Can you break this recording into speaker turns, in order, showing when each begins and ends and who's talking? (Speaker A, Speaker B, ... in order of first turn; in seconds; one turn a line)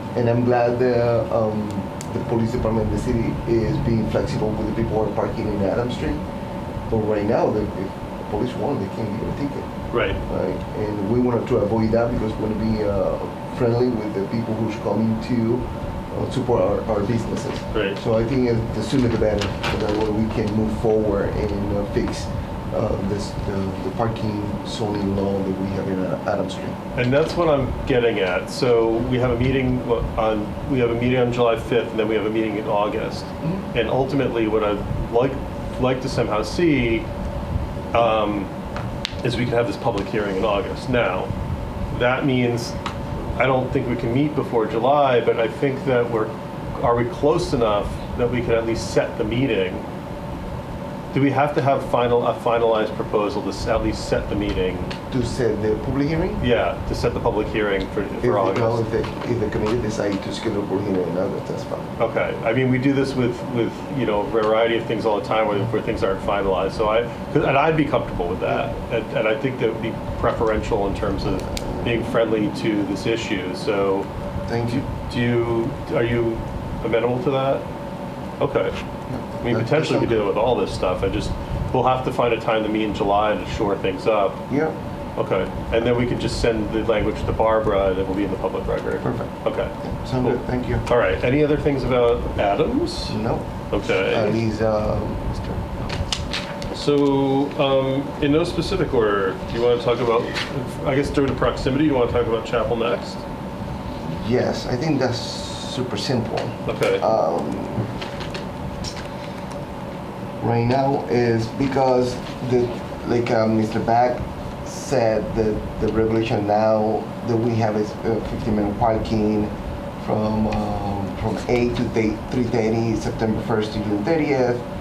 Speaker A: 0.1-6.2
Speaker A: 6.9-9.7
Speaker B: 9.9-10.2
Speaker A: 10.2-26.8
Speaker B: 17.7-18.0
Speaker B: 26.9-37.1
Speaker A: 33.4-33.7
Speaker B: 37.9-38.5
Speaker B: 39.2-41.3
Speaker B: 41.9-42.8
Speaker B: 43.4-49.9
Speaker B: 51.1-54.9
Speaker A: 55.1-56.4
Speaker B: 56.4-58.8
Speaker A: 58.2-61.9
Speaker B: 62.0-74.1
Speaker A: 74.5-74.9
Speaker B: 74.7-77.6
Speaker B: 78.4-78.8
Speaker A: 79.1-80.2
Speaker B: 79.4-84.4
Speaker A: 84.5-84.8
Speaker B: 85.2-94.4
Speaker A: 89.0-90.8
Speaker A: 93.1-95.9
Speaker B: 96.7-103.2
Speaker A: 104.0-107.9
Speaker B: 106.7-107.0
Speaker A: 110.4-124.6